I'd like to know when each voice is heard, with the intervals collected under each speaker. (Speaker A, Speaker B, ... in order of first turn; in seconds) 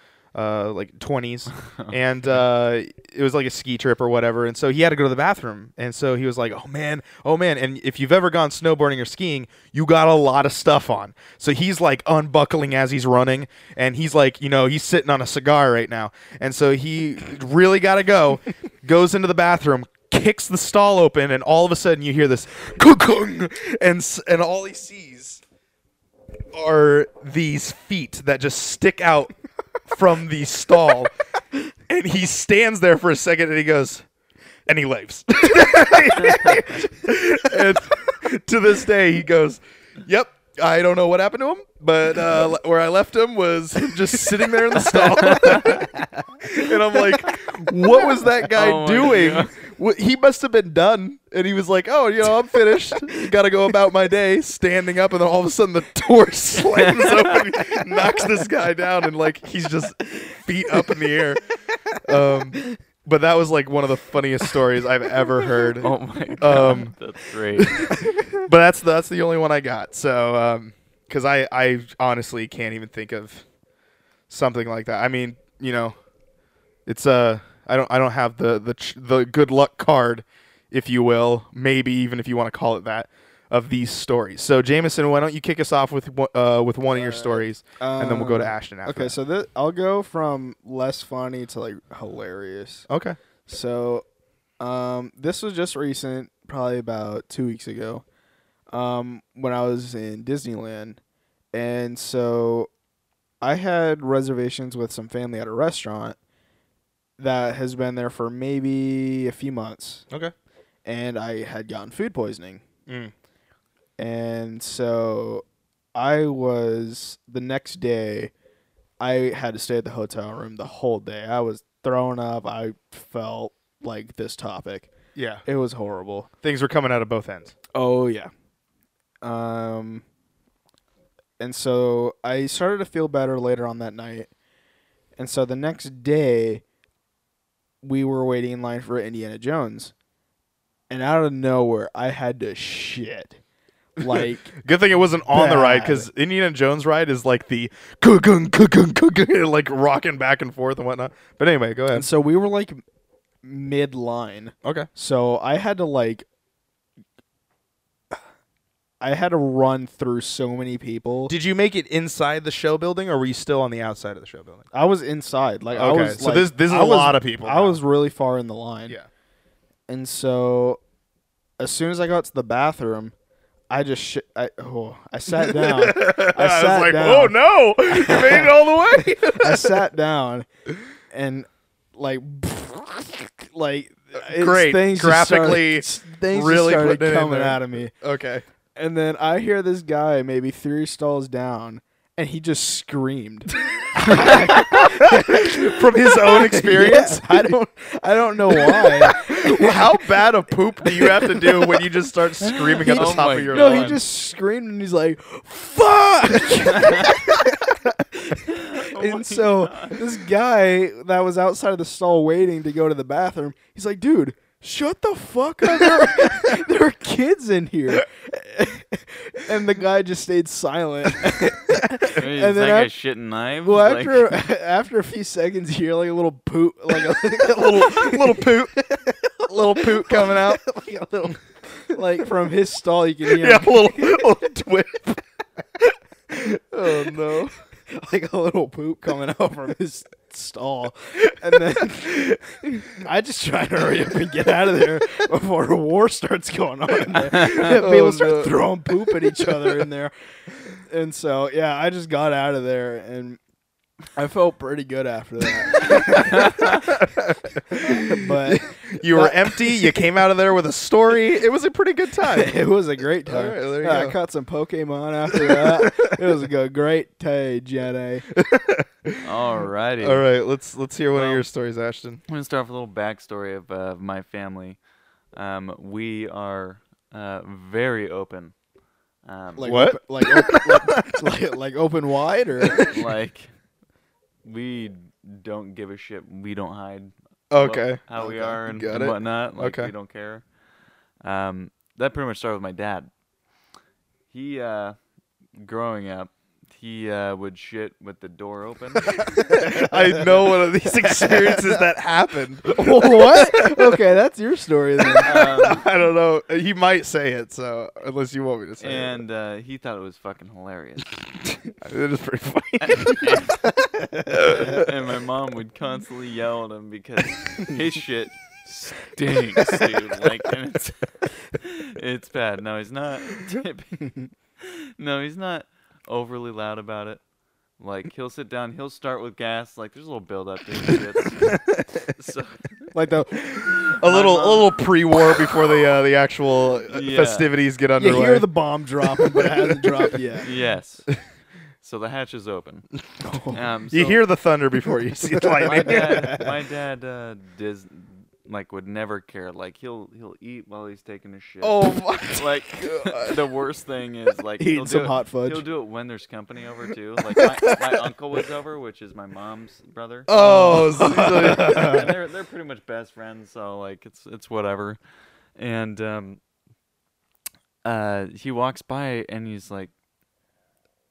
Speaker A: 0.3-25.4, 26.5-29.3, 29.9-31.1, 31.9-34.0, 34.7-45.9, 46.4-61.5, 62.0-66.9, 67.5-73.4, 74.3-76.0, 76.8-89.2, 92.9-93.2, 112.9-113.1, 125.1-125.4, 126.4-127.5, 144.0-152.1, 154.6-154.9, 161.3-164.7, 165.7-167.8, 175.3-179.8, 184.2-188.4, 194.0-197.5, 198.7-204.0, 215.6-216.5, 227.4-228.8, 229.5-230.6, 233.2-235.2, 236.7-237.5, 247.0-249.8, 255.8-258.3, 258.9-262.6, 263.2-264.2, 265.3-266.2, 268.3-269.2, 270.0-272.2, 279.6-281.2, 287.5-289.9, 299.2-304.0, 305.0-309.2, 311.8-313.4, 314.3-314.8, 333.4-338.5, 339.0-340.2, 343.9-346.4, 351.6-352.3, 353.0-353.3, 360.3-362.1
Speaker B: 45.1-46.2, 86.9-92.9, 93.5-94.0, 94.6-98.0, 98.7-101.0, 101.5-102.7, 103.4-106.2, 107.2-110.0, 110.8-112.6, 114.0-115.4, 115.9-118.3, 119.0-124.9, 125.4-126.3, 127.7-128.3, 129.2-130.0, 131.4-134.3, 135.2-136.6, 137.8-139.9, 140.9-143.4, 144.0-144.6, 145.3-146.1, 151.9-152.8, 153.4-156.2, 159.0-161.3, 164.7-169.0, 169.9-170.8, 171.6-173.1, 173.7-177.4, 177.9-180.4, 181.1-187.9, 188.8-200.1, 200.8-201.9, 202.8-222.9, 223.6-234.3, 236.3-250.1, 250.7-253.4, 254.1-257.0, 257.7-260.0, 262.2-268.3, 279.6-282.9, 299.1-301.9, 302.6-305.4, 314.0-314.8, 332.9-333.9, 337.9-340.5, 343.2-343.6, 345.3-346.6, 354.6-355.6, 360.3-362.1
Speaker C: 45.2-45.8, 48.5-49.5, 56.7-57.4, 65.8-67.9, 202.4-204.0, 206.8-207.1, 208.5-210.0, 222.2-224.4, 269.2-270.2, 271.1-271.4, 272.3-274.8, 275.3-278.5, 279.2-279.7, 282.8-283.5, 284.4-290.4, 291.2-293.1, 294.3-295.0, 295.6-299.2, 305.2-305.8, 308.8-311.1, 312.8-313.7, 314.4-321.0, 321.6-324.1, 324.6-327.2, 327.8-331.6, 332.1-332.8, 334.0-334.8, 336.9-337.5, 340.4-341.1, 341.8-342.9, 343.5-344.2, 345.6-365.0, 365.6-366.4, 367.8-369.9